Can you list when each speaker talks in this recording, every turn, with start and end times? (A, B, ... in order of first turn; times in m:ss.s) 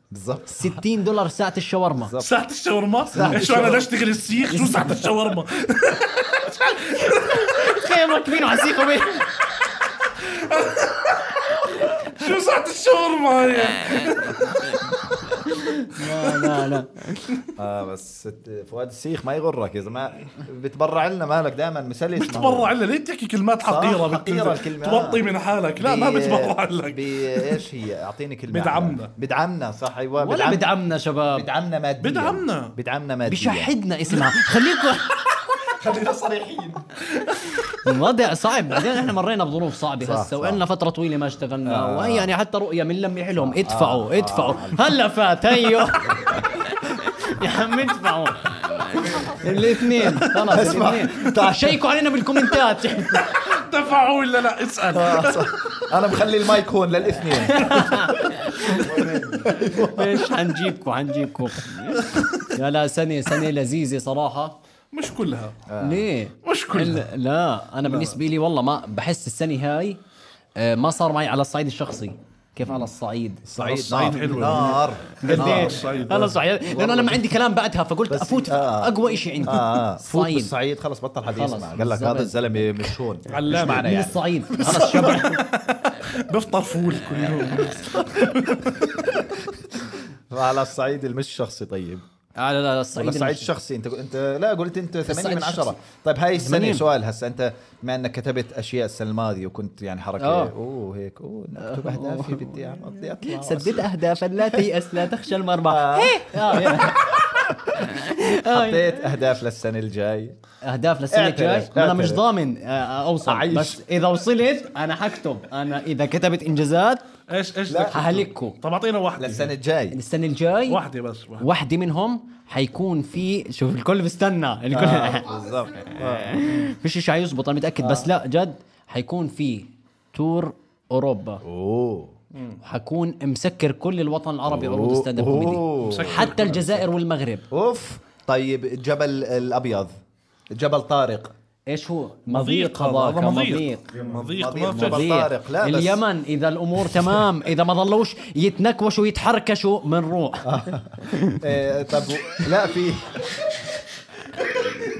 0:00.1-0:00.7 A
0:00.6-0:02.2 B
0:01.9-0:02.3 A
0:02.2-0:07.8 C
0:03.1-0:03.7 B
0:03.1-0:03.9 A
0:04.5-0:05.1 B
0:07.0-0:09.3 B
0:10.0-0:14.8 C
0:15.3-0:17.2 B
0:16.2-0:16.7 C
0:17.6-0:22.7 A
0:22.2-0:27.6 C
0:23.6-0:25.2 A
0:25.8-0:30.6 A
0:28.5-0:29.1 C
0:30.2-0:31.4 B
0:31.3-0:33.7 A
0:32.0-0:32.7 C
0:33.2-0:35.1 B
0:35.6-0:37.7 C
0:35.8-0:36.8 A
0:37.8-0:53.3 B
0:40.0-0:40.6 A
0:41.6-0:42.3 A
0:43.4-0:44.9 A
0:46.1-0:46.4 A
0:50.3-0:51.8 A
0:53.3-0:55.5 C
0:54.9-1:00.3 A
0:57.4-1:04.6 B
1:01.9-1:02.5 C
1:04.9-1:05.6 C
1:05.7-1:06.1 A
1:05.8-1:10.0 B
1:06.4-1:07.1 C
1:07.8-1:08.2 C
1:10.6-1:13.5 B
1:13.4-1:15.9 A
1:13.6-1:16.4 C
1:14.0-1:20.5 B
1:16.7-1:17.3 A
1:18.1-1:25.3 A
1:21.3-1:23.0 B
1:23.3-1:23.9 C
1:23.5-1:25.4 B
1:24.7-1:29.1 C
1:29.0-1:29.4 A
1:30.3-1:32.0 A
1:32.4-1:33.5 B
1:32.9-1:43.9 A
1:35.0-1:35.7 B
1:36.3-1:36.9 B
1:40.2-1:40.5 B
1:41.6-1:49.0 B
1:44.5-1:44.8 A
1:45.6-1:50.4 A
1:50.6-1:57.1 B
1:51.1-1:52.2 A
1:53.2-1:53.8 A
1:57.3-1:59.5 C
1:57.7-1:58.0 A
1:57.9-1:58.6 B
1:59.2-2:00.0 A
1:59.9-2:00.8 B
2:00.7-2:01.5 C
2:01.4-2:05.3 B
2:04.7-2:06.5 A
2:06.0-2:11.4 B
2:07.8-2:08.1 A
2:11.4-2:12.1 A
2:12.6-2:17.4 B
2:14.5-2:16.8 A
2:15.8-2:16.7 C
2:17.5-2:19.9 A
2:20.5-2:21.3 A
2:21.7-2:23.9 B
2:22.3-2:25.1 C
2:24.3-2:26.0 A
2:24.7-2:31.4 B
2:30.4-2:33.5 A